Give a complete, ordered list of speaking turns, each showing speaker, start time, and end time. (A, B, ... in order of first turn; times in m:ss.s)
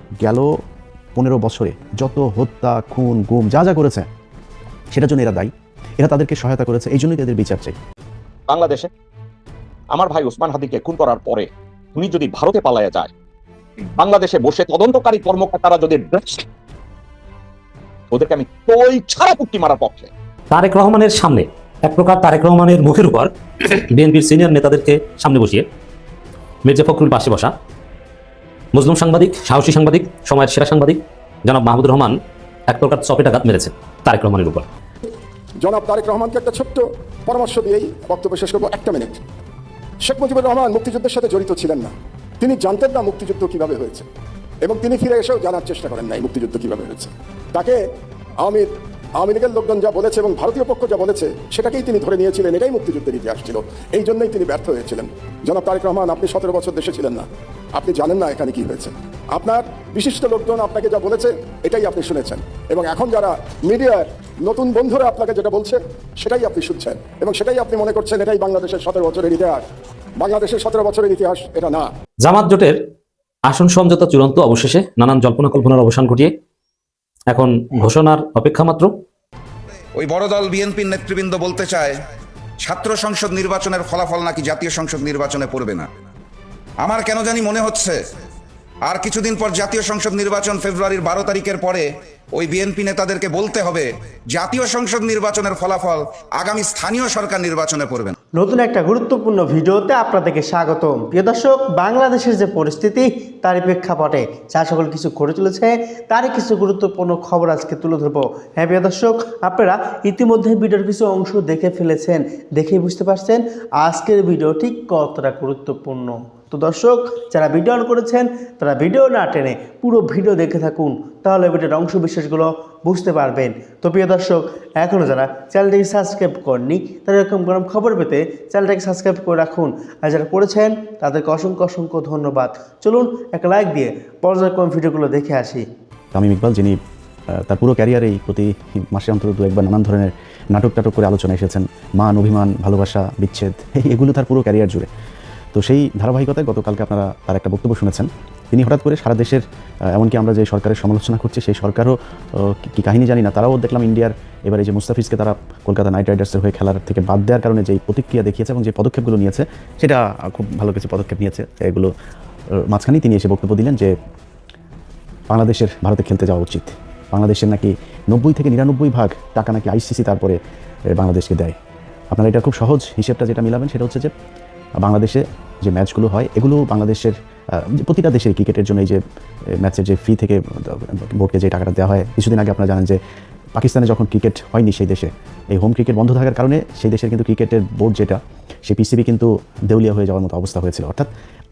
0:00.2-0:00.5 A
0:01.2-0:04.1 A
0:04.9-0:07.8 A
0:08.5-0:08.9 B
0:09.9-0:13.1 B
0:14.0-0:16.4 B
0:18.1-0:20.1 B
0:20.5-0:25.6 C
0:26.7-0:27.5 C
0:28.7-0:32.2 C
0:32.7-0:34.7 C
0:35.6-0:39.2 D
0:40.0-0:44.1 D
0:44.6-0:47.8 D
0:48.4-1:09.6 D
1:10.2-1:11.9 D
1:12.2-1:12.8 C
1:13.5-1:16.3 C
1:17.3-1:18.9 C
1:20.0-1:22.0 E
1:22.6-1:25.9 E
1:26.8-1:28.0 E
1:28.8-1:38.2 E
1:38.4-2:15.6 F
2:16.1-2:16.8 A
2:17.4-2:24.9 A
2:25.6-2:41.9 A
2:42.6-2:43.9 A
2:45.3-2:50.4 A
2:50.9-2:51.6 A
2:52.1-2:54.1 A
2:54.8-2:59.0 A
2:59.6-3:03.0 A
3:03.6-3:11.1 A